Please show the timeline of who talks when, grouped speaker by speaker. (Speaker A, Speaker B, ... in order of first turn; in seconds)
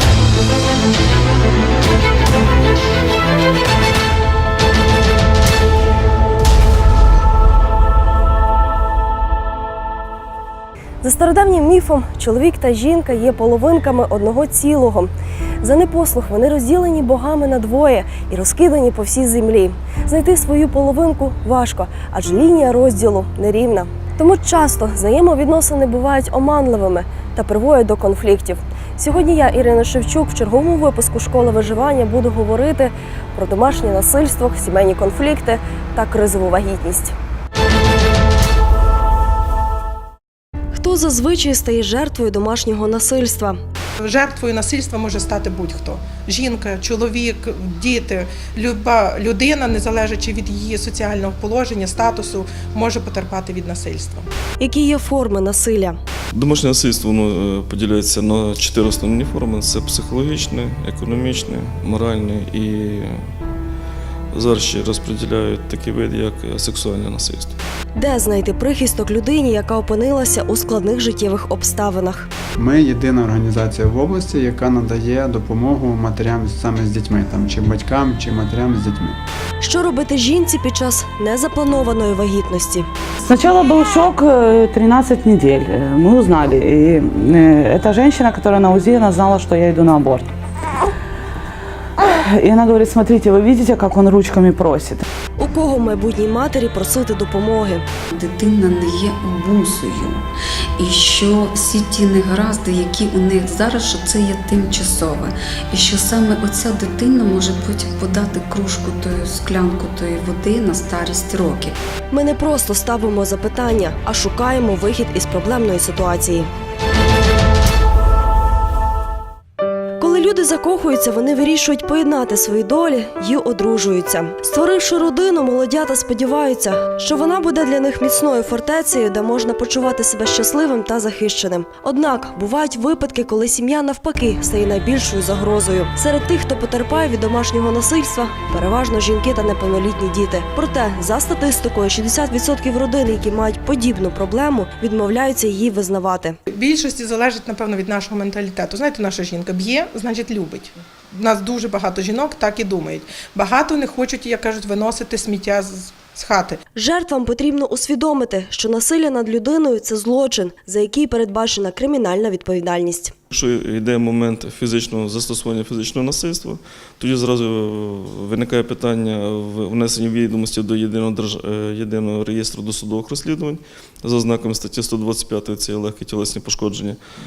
Speaker A: 11.0-15.1, 15.6-37.1, 40.7-43.6, 54.6-56.0, 68.0-72.3, 79.6-82.9, 95.4-97.8, 112.1-116.5, 120.0-146.4, 156.8-163.1
Speaker B: 44.0-54.3, 146.5-156.6
Speaker C: 56.3-63.3, 64.3-67.6, 163.3-177.0
Speaker D: 72.6-79.2
Speaker E: 83.2-90.3, 92.0-95.0
Speaker F: 98.1-100.2, 100.8-111.8